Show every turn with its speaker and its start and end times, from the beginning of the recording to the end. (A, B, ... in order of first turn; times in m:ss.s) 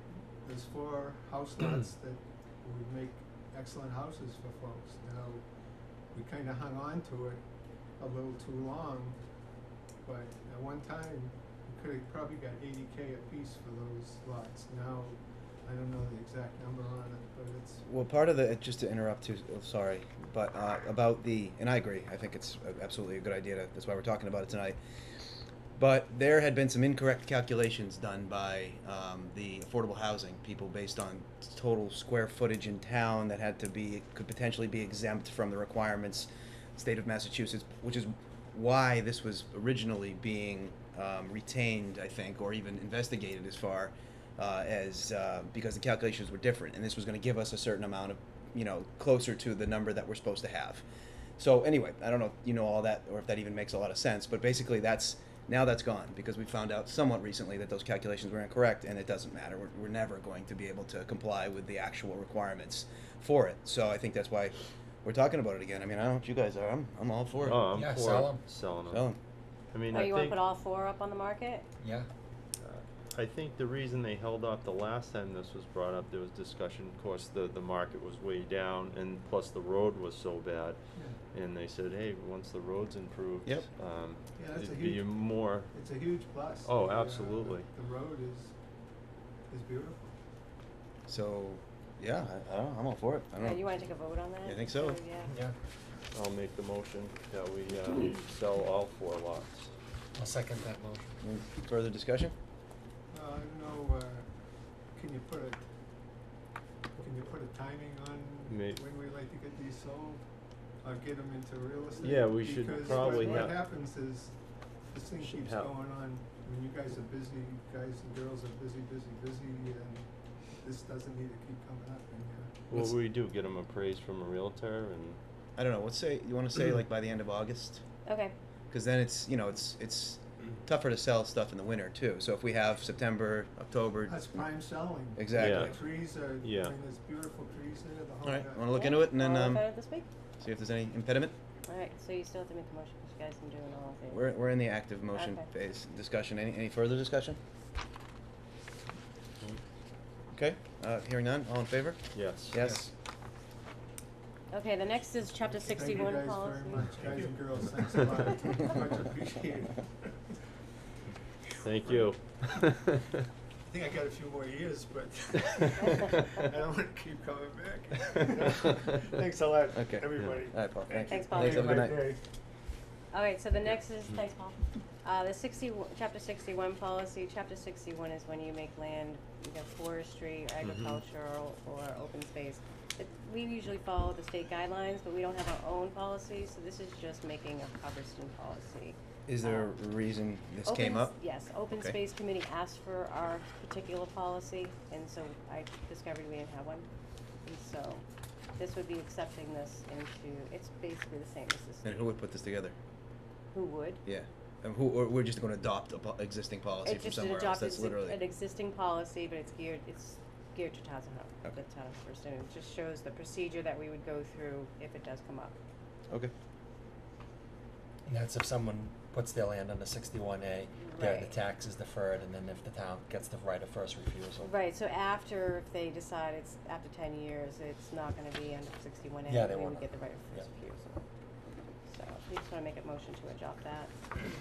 0:00.4-0:05.4 A
0:06.1-0:07.4 A
0:08.0-0:09.2 A
0:10.0-0:17.8 A
0:17.8-0:24.8 B
0:25.8-0:50.8 B
0:51.4-1:07.7 B
1:07.4-1:09.1 C
1:07.5-1:08.4 D
1:08.9-1:09.2 B
1:09.7-1:10.4 C
1:09.9-1:11.6 E
1:11.8-1:12.1 D
1:12.6-1:20.8 C
1:21.3-1:25.7 C
1:24.4-1:25.0 A
1:25.7-1:28.5 A
1:26.6-1:27.7 C
1:29.5-1:30.2 A
1:31.1-1:33.6 B
1:33.4-1:35.3 E
1:34.4-1:35.0 B
1:36.1-1:39.7 C
1:40.2-1:41.1 D
1:41.2-1:42.3 B
1:43.1-1:44.3 A
1:44.9-1:45.6 A
1:47.0-1:50.2 A
1:48.5-1:48.8 C
1:50.8-1:54.3 A
1:52.0-1:53.6 C
1:52.8-1:53.5 E
1:54.9-2:02.6 A
1:55.2-1:55.7 C
2:02.7-2:05.2 C
2:05.6-2:07.8 B
2:08.0-2:08.3 E
2:08.7-2:15.8 B
2:14.1-2:18.6 A
2:15.3-2:16.8 C
2:18.2-2:19.6 B
2:18.7-2:20.1 E
2:20.4-2:21.3 B
2:21.7-2:24.3 E
2:24.1-2:27.4 B
2:25.1-2:25.4 E
2:30.3-2:32.9 B
2:32.1-2:32.6 C
2:34.5-2:37.0 E
2:35.6-2:40.1 A
2:41.6-2:43.2 C
2:43.6-2:52.2 A
2:49.7-2:52.1 B
2:51.1-2:51.9 E
2:53.1-3:09.7 E
3:00.6-3:01.0 C
3:09.3-3:11.2 B
3:10.6-3:16.9 E
3:11.7-3:12.0 B
3:17.4-3:18.0 E
3:18.6-3:22.0 E
3:21.8-3:22.7 B
3:23.5-3:24.0 E
3:24.0-3:28.2 B
3:26.8-3:35.5 E
3:38.1-3:44.5 D
3:40.8-3:41.4 E
3:44.4-3:51.0 E
3:49.3-3:50.4 D
3:51.8-3:53.9 E